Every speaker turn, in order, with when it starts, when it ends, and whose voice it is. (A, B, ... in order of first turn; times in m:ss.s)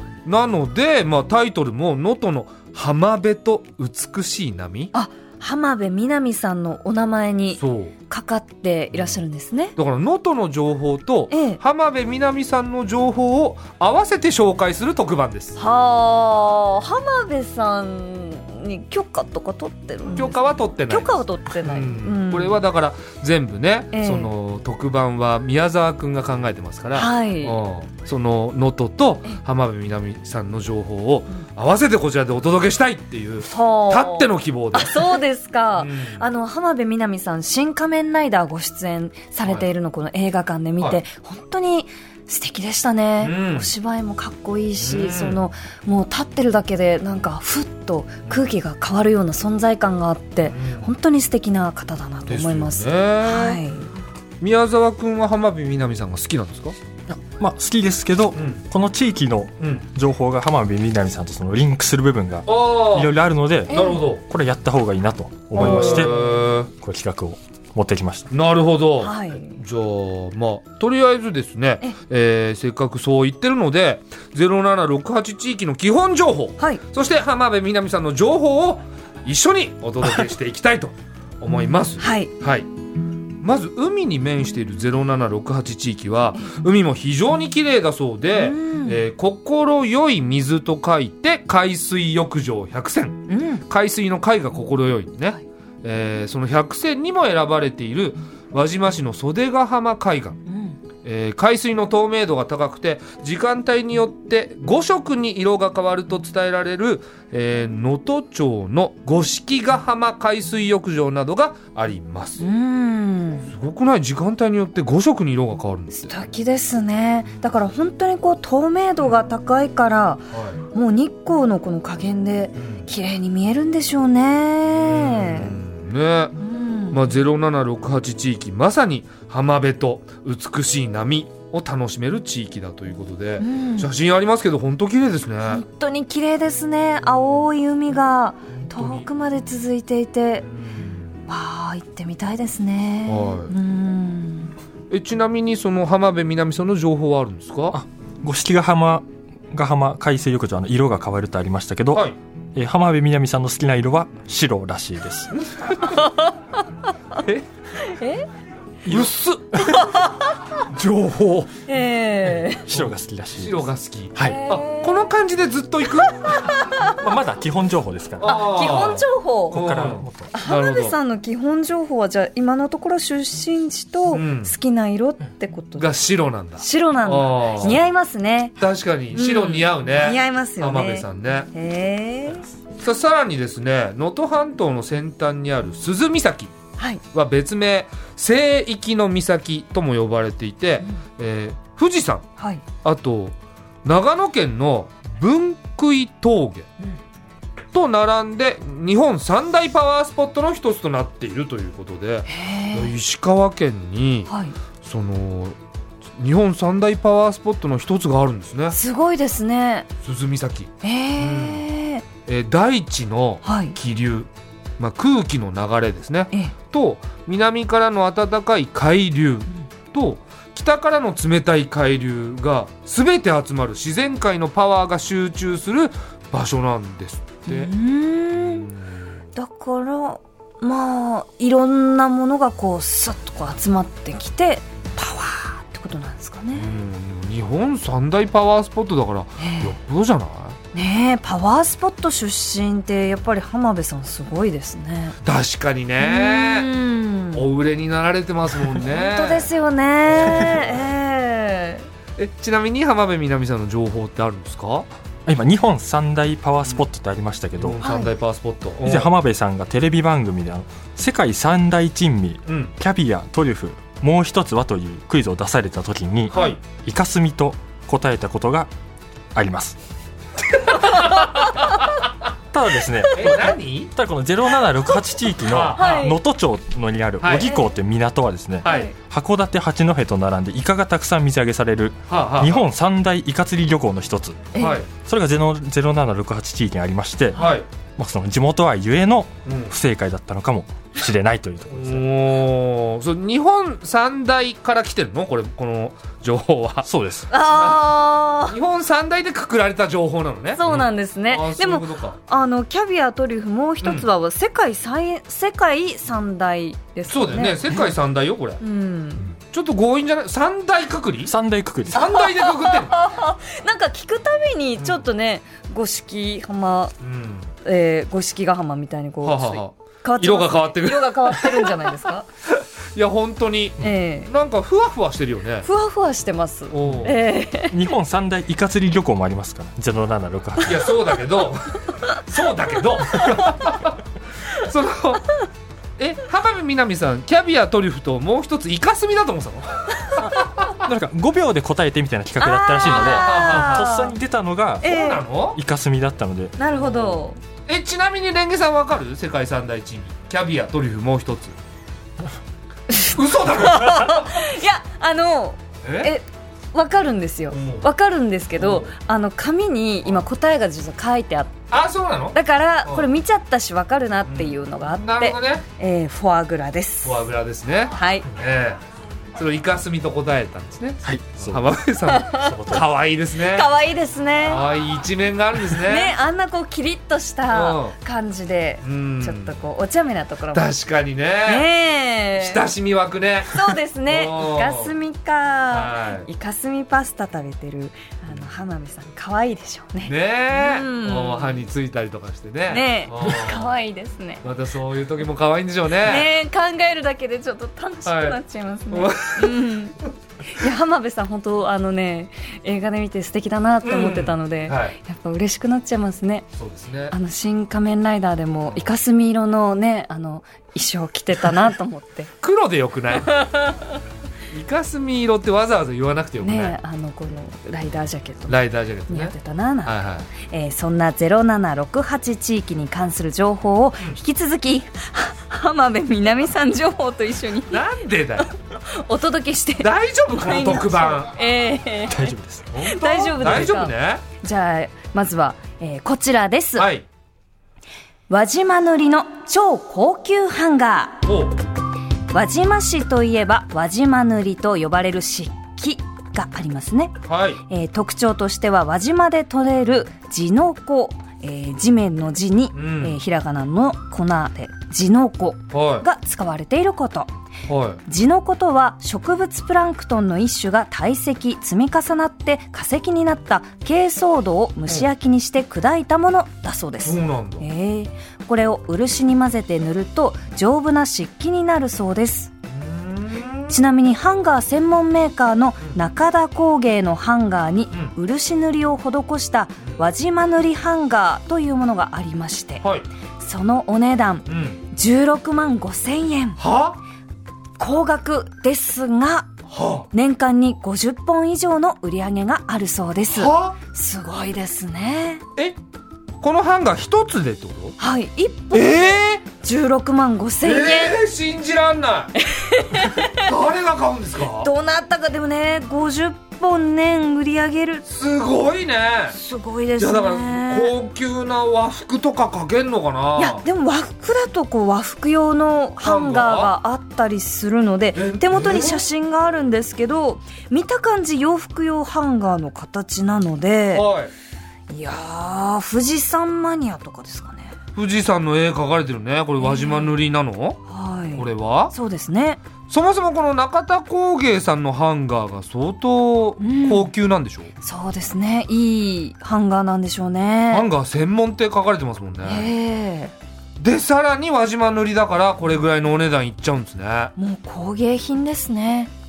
0:00.2-0:04.9 A
0:04.9-0:09.8 B
0:07.6-0:07.9 A
0:09.8-0:15.6 A
0:11.3-0:11.6 B
0:15.6-0:22.6 B
0:20.1-0:35.1 A
0:23.9-0:24.3 B
0:26.9-0:27.6 B
0:33.4-0:53.9 B
0:35.8-0:36.2 A
0:43.2-0:43.7 A
0:44.8-0:45.4 A
0:50.4-0:50.9 A
0:52.3-0:53.6 A
0:54.4-0:56.7 A
0:57.1-1:08.3 C
0:58.3-0:58.6 A
0:59.6-0:59.8 A
1:02.5-1:03.1 A
1:03.7-1:04.2 A
1:03.7-1:04.0 B
1:05.5-1:06.7 A
1:05.6-1:06.1 B
1:08.3-1:22.7 A
1:09.0-1:09.6 B
1:22.0-1:22.3 B
1:23.4-1:40.4 A
1:28.3-1:29.0 B
1:33.3-1:33.6 B
1:40.5-1:40.8 B
1:41.0-1:52.4 A
1:52.4-1:53.5 B
1:53.5-1:56.1 A
1:56.0-2:05.5 B
2:00.3-2:00.6 A
2:02.6-2:02.8 A
2:04.7-2:06.4 A
2:06.4-2:07.2 B
2:06.9-2:15.6 A
2:13.4-2:13.9 B
2:15.5-2:20.4 B
2:18.6-2:19.0 A
2:20.5-2:21.1 A
2:21.3-2:24.5 B
2:23.1-2:23.5 A
2:24.9-2:27.8 A
2:27.7-2:35.3 C
2:35.3-2:35.9 A
2:35.8-2:36.3 B
2:37.8-2:38.3 B
2:38.8-2:39.6 A
2:39.5-2:40.6 B
2:40.7-2:41.5 A
2:41.7-2:42.7 B
2:42.7-2:44.4 C
2:42.7-2:46.5 A
2:44.2-2:45.1 B
2:46.2-2:46.9 B
2:46.8-2:48.8 C
2:48.2-2:51.0 A
2:48.2-2:55.9 B
2:49.5-2:50.3 C
2:54.1-2:54.5 A
2:55.8-2:57.8 A
2:56.6-2:58.6 B
2:58.6-3:01.5 A
2:59.1-3:02.4 B
3:02.8-3:06.5 A
3:07.1-3:12.3 A
3:12.4-3:12.6 B
3:12.8-3:16.7 A
3:17.7-3:24.3 A
3:22.3-3:22.9 B
3:24.3-3:24.6 B
3:24.8-3:25.6 A
3:26.2-3:28.8 A
3:28.7-3:29.9 B
3:30.0-3:31.6 A
3:30.8-3:32.0 B
3:32.2-3:47.7 A
3:33.4-3:33.8 B
3:47.5-3:48.7 B
3:48.4-3:49.0 A
3:49.4-3:56.7 B
3:56.5-4:00.6 A
3:59.4-3:59.7 B
4:00.7-4:05.2 B
4:05.2-4:06.7 A
4:06.0-4:07.4 B
4:07.3-4:09.5 A
4:08.8-4:11.8 B
4:10.0-4:10.9 A
4:12.2-4:14.9 A
4:15.2-4:17.8 C
4:17.6-4:19.1 A
4:17.8-4:18.1 B
4:18.8-4:28.7 C
4:22.5-4:22.7 A
4:26.3-4:26.6 B
4:29.3-4:29.8 C
4:30.6-4:31.8 A
4:32.5-4:52.0 C
4:33.1-4:33.9 A
4:35.4-4:36.0 A
4:35.7-4:36.2 B
4:37.2-4:37.5 A
4:37.3-4:37.7 B
4:38.6-4:38.9 B
4:42.1-4:42.6 A
4:44.5-4:44.8 B
4:44.6-4:44.9 A
4:47.4-4:47.6 A
4:49.4-4:49.7 A
4:51.7-4:56.9 A
4:56.8-4:57.3 C
4:57.3-4:58.6 B
4:57.4-5:02.2 A
5:00.6-5:07.8 B
5:03.8-5:04.1 A
5:07.1-5:08.6 A
5:08.6-5:09.3 B
5:09.5-5:11.3 A
5:11.2-5:12.1 C
5:11.9-5:13.0 A
5:11.9-5:16.9 B
5:17.0-5:17.5 A
5:17.6-5:22.3 B
5:19.2-5:21.8 A
5:22.6-5:25.7 A
5:23.8-5:24.3 B
5:25.6-5:27.8 B
5:26.7-5:27.2 A
5:27.7-5:30.9 C
5:30.6-5:34.0 A
5:33.1-5:33.6 B
5:34.5-5:35.2 A
5:36.0-5:40.7 A
5:40.7-5:46.5 C
5:42.4-5:44.1 B
5:42.8-5:43.8 A
5:44.8-5:45.2 B
5:44.8-5:45.6 A
5:46.6-5:47.4 B
5:46.7-5:51.6 A
5:52.9-6:01.6 B
5:53.0-5:54.4 A
5:55.8-5:56.1 A
5:57.5-5:57.9 A
5:58.6-5:58.9 A
6:01.7-6:03.0 A
6:02.3-6:07.3 B
6:04.3-6:05.6 A
6:07.0-6:08.8 A
6:07.9-6:08.3 B
6:09.3-6:13.7 A
6:11.0-6:11.6 C
6:12.0-6:12.8 B
6:12.4-6:12.9 C
6:13.4-6:14.6 B
6:14.4-6:16.2 A
6:15.8-6:20.7 B
6:17.5-6:17.9 A
6:18.8-6:19.6 A
6:20.5-6:21.7 A
6:21.4-6:22.6 B
6:22.4-6:24.9 A
6:23.5-6:31.6 B
6:25.7-6:26.3 A
6:30.0-6:33.7 A
6:32.7-6:34.4 B
6:34.4-6:36.3 A
6:36.0-6:46.5 B
6:38.0-6:38.4 A
6:38.9-6:39.8 A
6:43.8-6:45.0 A
6:46.6-6:47.1 A
6:47.1-6:52.3 B
6:52.4-6:53.4 A
6:53.2-6:53.9 B
6:54.5-6:56.8 A
6:56.4-7:07.8 B
6:58.5-6:59.3 A
6:59.8-7:00.3 A
7:07.7-7:08.5 A
7:08.4-7:16.9 B
7:09.8-7:11.3 A
7:12.1-7:12.7 C
7:12.7-7:14.2 A
7:16.8-7:17.0 A
7:18.3-7:21.2 B
7:21.2-7:21.6 A
7:22.3-7:37.3 B
7:27.2-7:27.6 A
7:32.7-7:33.2 A
7:35.7-7:36.0 A
7:37.7-7:38.0 A
7:38.1-7:52.5 B
7:47.0-7:47.6 A
7:52.7-7:53.8 A
7:53.7-8:02.8 B
8:03.4-8:06.6 B
8:04.5-8:04.8 A
8:06.6-8:07.0 A
8:07.8-8:09.5 B
8:09.7-8:10.1 A
8:10.1-8:15.4 B
8:13.3-8:13.8 A
8:16.4-8:17.9 A
8:18.0-8:21.2 B
8:18.7-8:19.4 A
8:20.6-8:22.4 A
8:22.4-8:23.4 B
8:23.2-8:24.7 A
8:24.6-8:28.0 B
8:28.0-8:29.4 A
8:29.3-8:30.9 B
8:30.0-8:33.6 A
8:33.4-8:44.1 B
8:36.0-8:36.7 A
8:38.1-8:39.0 A
8:43.9-8:44.3 A
8:44.9-8:47.8 B
8:47.9-8:50.8 A
8:49.6-8:50.1 B
8:50.9-8:52.6 B
8:51.3-8:51.9 A
8:52.9-8:57.7 A
8:56.6-8:57.1 B
8:57.8-9:00.8 B
9:00.7-9:02.7 A
9:02.4-9:03.3 B
9:03.8-9:07.3 A
9:07.4-9:09.1 B